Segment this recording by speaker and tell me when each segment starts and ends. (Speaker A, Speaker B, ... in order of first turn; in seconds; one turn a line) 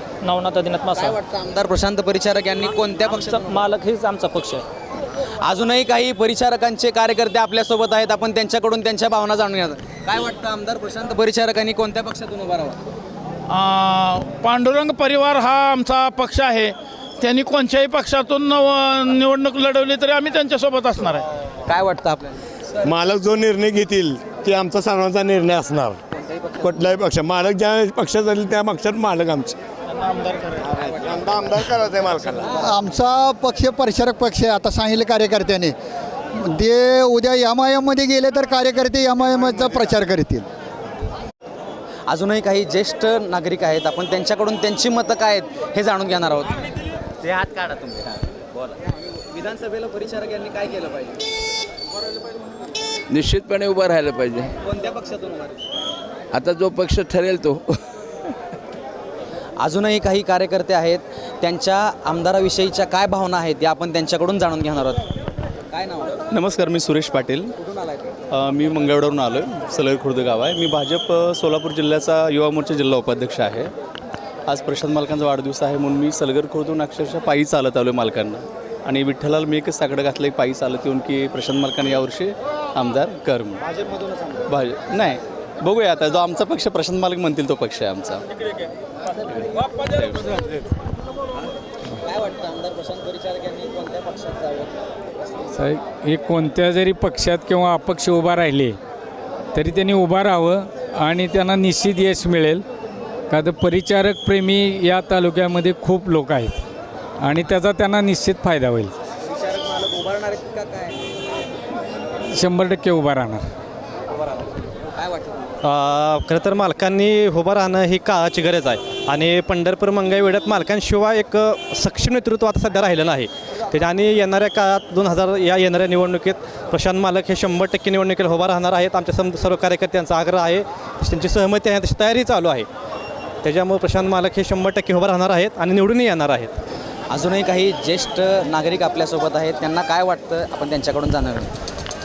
Speaker A: 0.9-3.7
Speaker A: 5.4-12.8
Speaker B: 13.5-21.2
Speaker A: 21.7-22.4
Speaker C: 22.8-26.0
Speaker A: 26.3-26.8
Speaker C: 26.6-29.6
Speaker C: 30.7-32.5
Speaker D: 32.5-35.7
Speaker D: 36.4-40.5
Speaker A: 42.1-46.6
Speaker A: 47.2-51.2
Speaker E: 53.1-54.5
Speaker A: 54.6-55.6
Speaker E: 56.3-57.6
Speaker A: 59.6-65.1
Speaker A: 65.7-66.2
Speaker F: 66.3-67.5
Speaker A: 67.6-68.1
Speaker F: 68.3-73.7
Speaker F: 74.5-83.6
Speaker A: 83.6-84.5
Speaker F: 84.5-88.2
Speaker F: 89.3-90.7
Speaker A: 92.0-94.7
Speaker G: 95.5-98.8
Speaker G: 99.5-102.6
Speaker G: 103.3-106.6
Speaker G: 107.2-108.9
Speaker A: 109.2-111.0
Speaker G: 112.3-113.4
Speaker A: 114.9-115.5
Speaker H: 115.6-132.7
Speaker H: 133.4-136.5
Speaker A: 137.1-141.5